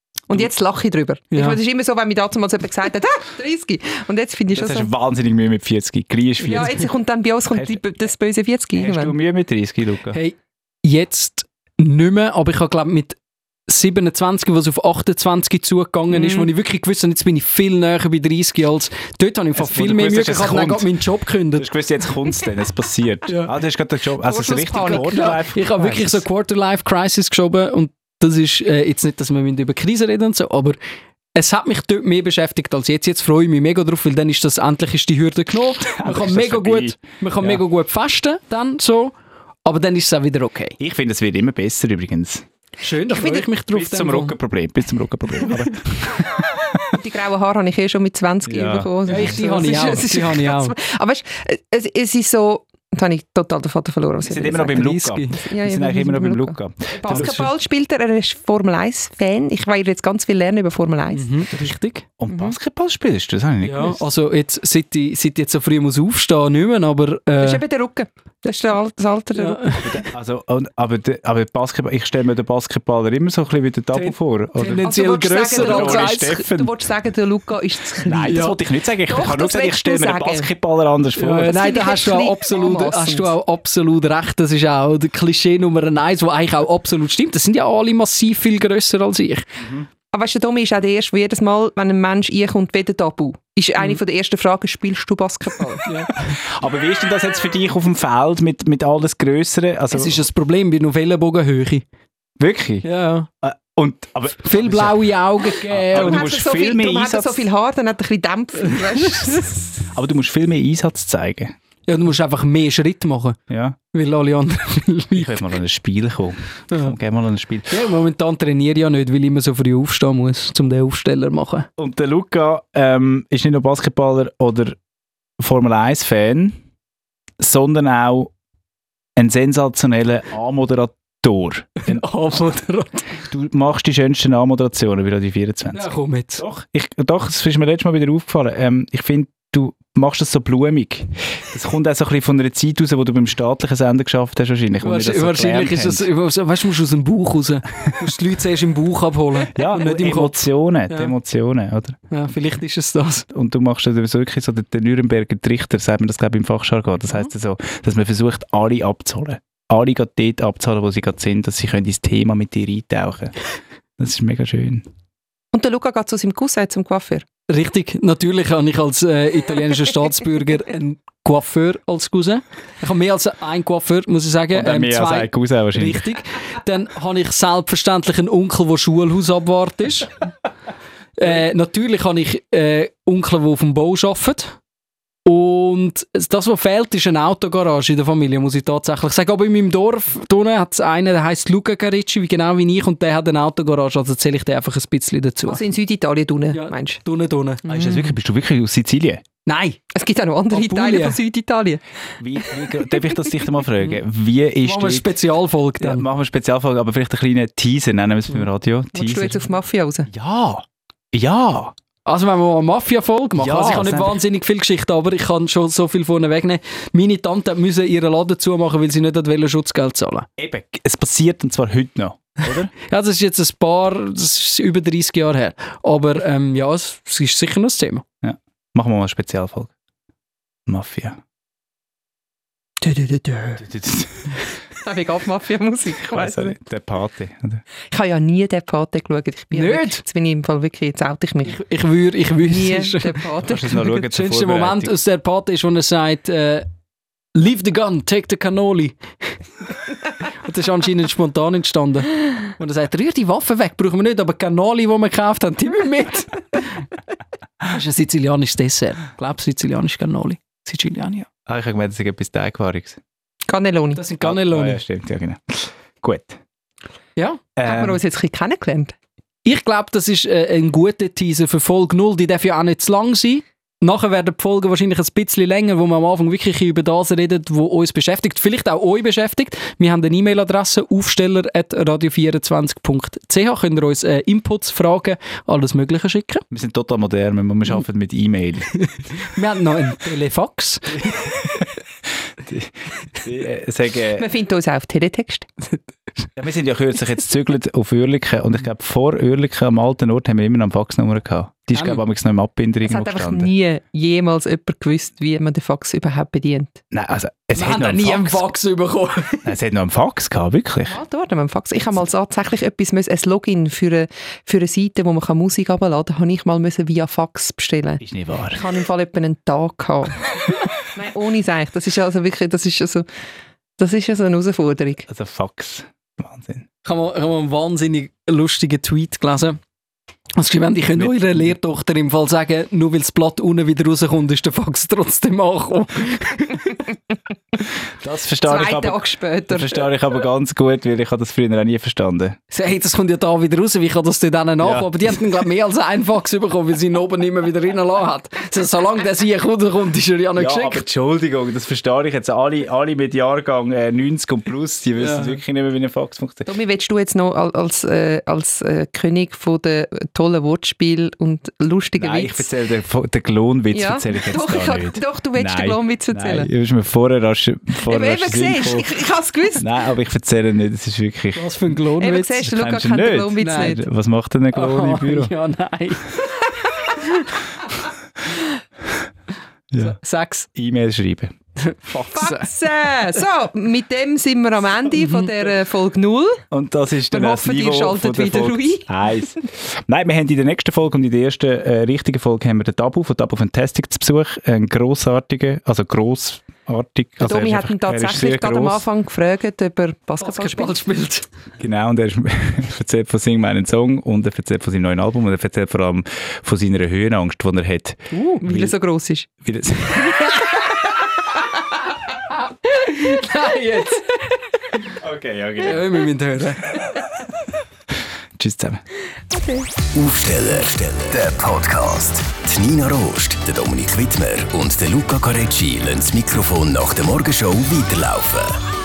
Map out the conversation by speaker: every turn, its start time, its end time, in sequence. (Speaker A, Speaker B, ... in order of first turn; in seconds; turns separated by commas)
Speaker A: 0.3-4.9, Speaker B: 1.3-1.6, Speaker C: 4.5-6.8, Speaker A: 6.4-9.1, Speaker C: 7.5-7.8, Speaker C: 8.7-10.2, Speaker B: 10.1-21.7, Speaker A: 16.1-16.5, Speaker C: 19.6-20.9, Speaker C: 21.5-26.2, Speaker A: 24.2-25.4, Speaker B: 24.8-30.8, Speaker B: 31.3-39.1, Speaker C: 35.9-37.6, Speaker B: 39.6-40.8, Speaker C: 40.8-42.4, Speaker B: 42.8-44.4, Speaker A: 43.1-43.5, Speaker C: 43.7-46.9, Speaker B: 45.4-45.7, Speaker A: 46.9-61.4, Speaker C: 48.5-49.4, Speaker B: 49.1-50.7, Speaker C: 54.2-57.4, Speaker B: 54.7-55.4, Speaker B: 57.1-57.5, Speaker B: 61.1-62.0, Speaker C: 62.2-64.0, Speaker A: 62.3-62.5, Speaker B: 63.6-67.6, Speaker A: 67.4-69.8, Speaker B: 69.3-70.0, Speaker C: 69.8-74.9, Speaker B: 73.9-76.3, Speaker A: 74.8-80.5, Speaker C: 75.5-76.7, Speaker C: 78.0-81.6, Speaker B: 78.2-78.6, Speaker B: 81.2-89.5, Speaker A: 81.4-83.3, Speaker C: 89.6-89.9, Speaker A: 90.1-95.9, Speaker B: 95.8-96.4, Speaker C: 96.4-100.2, Speaker B: 99.9-101.8, Speaker C: 102.4-102.9, Speaker B: 102.8-103.3, Speaker C: 103.4-107.5, Speaker B: 104.4-106.3, Speaker A: 105.9-109.8, Speaker C: 109.9-111.5, Speaker B: 111.9-113.4, Speaker C: 113.5-113.8, Speaker B: 113.9-115.4, Speaker C: 115.1-117.8, Speaker B: 116.7-116.9, Speaker B: 117.7-121.7, Speaker C: 121.8-124.8, Speaker C: 125.4-126.6, Speaker C: 127.4-128.3, Speaker C: 129.2-132.0, Speaker B: 131.8-133.2, Speaker C: 133.3-146.1, Speaker B: 135.7-136.4, Speaker B: 144.8-151.1, Speaker C: 149.5-152.0, Speaker B: 152.1-153.2, Speaker C: 153.3-163.3, Speaker C: 164.0-164.8, Speaker A: 165.5-167.2, Speaker B: 167.5-180.1, Speaker C: 174.5-176.1, Speaker B: 181.2-184.6, Speaker B: 185.2-195.6, Speaker A: 195.4-197.0, Speaker B: 196.5-197.7, Speaker A: 197.7-198.1, Speaker C: 197.7-199.2, Speaker B: 199.4-199.8, Speaker A: 199.9-201.8, Speaker B: 200.5-201.2, Speaker C: 202.2-205.1, Speaker B: 204.6-206.1, Speaker C: 205.8-209.5, Speaker A: 208.9-210.1, Speaker C: 210.1-211.7, Speaker B: 212.0-220.2, Speaker C: 213.4-214.2, Speaker C: 220.4-222.7, Speaker B: 222.8-228.0, Speaker C: 228.2-229.7, Speaker C: 230.7-231.2, Speaker B: 232.8-233.6, Speaker C: 233.6-234.3, Speaker A: 234.8-236.5, Speaker C: 236.1-237.6, Speaker A: 237.9-241.6, Speaker B: 239.5-240.0, Speaker B: 241.4-246.7, Speaker A: 242.4-243.9, Speaker C: 243.4-244.9, Speaker B: 247.3-249.7, Speaker B: 250.2-256.9, Speaker B: 257.6-261.3, Speaker C: 261.5-263.0, Speaker A: 263.5-264.0, Speaker B: 263.9-264.8, Speaker C: 264.2-266.4, Speaker B: 267.1-267.4, Speaker C: 267.6-268.0, Speaker A: 267.6-268.9, Speaker B: 269.4-286.4, Speaker C: 286.5-288.7, Speaker B: 288.9-291.6, Speaker C: 292.4-294.3, Speaker A: 294.1-295.5, Speaker C: 296.4-303.5, Speaker B: 301.7-302.0, Speaker A: 302.8-306.8, Speaker C: 306.9-308.4, Speaker B: 307.5-309.5, Speaker C: 309.4-311.0, Speaker A: 310.9-318.0, Speaker C: 318.0-318.6, Speaker A: 318.5-323.1, Speaker A: 323.8-325.1, Speaker C: 325.1-326.6, Speaker B: 326.8-329.6, Speaker B: 330.4-336.8, Speaker C: 331.0-331.4, Speaker C: 338.0-342.4, Speaker A: 338.4-339.9, Speaker B: 342.5-350.8, Speaker C: 344.6-344.9, Speaker C: 350.4-356.5, Speaker B: 355.0-355.4, Speaker A: 356.5-362.4, Speaker C: 362.0-368.9, Speaker A: 363.7-366.5, Speaker A: 367.8-369.6, Speaker C: 369.6-371.8, Speaker B: 371.3-372.5, Speaker A: 372.0-373.9, Speaker C: 372.4-375.3, Speaker B: 373.4-373.8, Speaker B: 374.5-376.4, Speaker B: 376.9-377.3, Speaker B: 379.8-380.5, Speaker C: 380.5-381.3, Speaker B: 381.6-382.5, Speaker A: 382.1-386.4, Speaker B: 384.9-385.3, Speaker C: 386.5-398.8, Speaker A: 387.1-388.9, Speaker A: 397.2-400.8, Speaker B: 400.2-401.3, Speaker C: 401.6-408.7, Speaker A: 408.1-409.3, Speaker C: 409.4-410.3, Speaker A: 410.1-410.4, Speaker B: 412.4-414.8, Speaker C: 414.9-415.9, Speaker B: 415.6-416.9, Speaker C: 418.4-418.8, Speaker A: 419.3-419.7, Speaker D: 419.9-428.6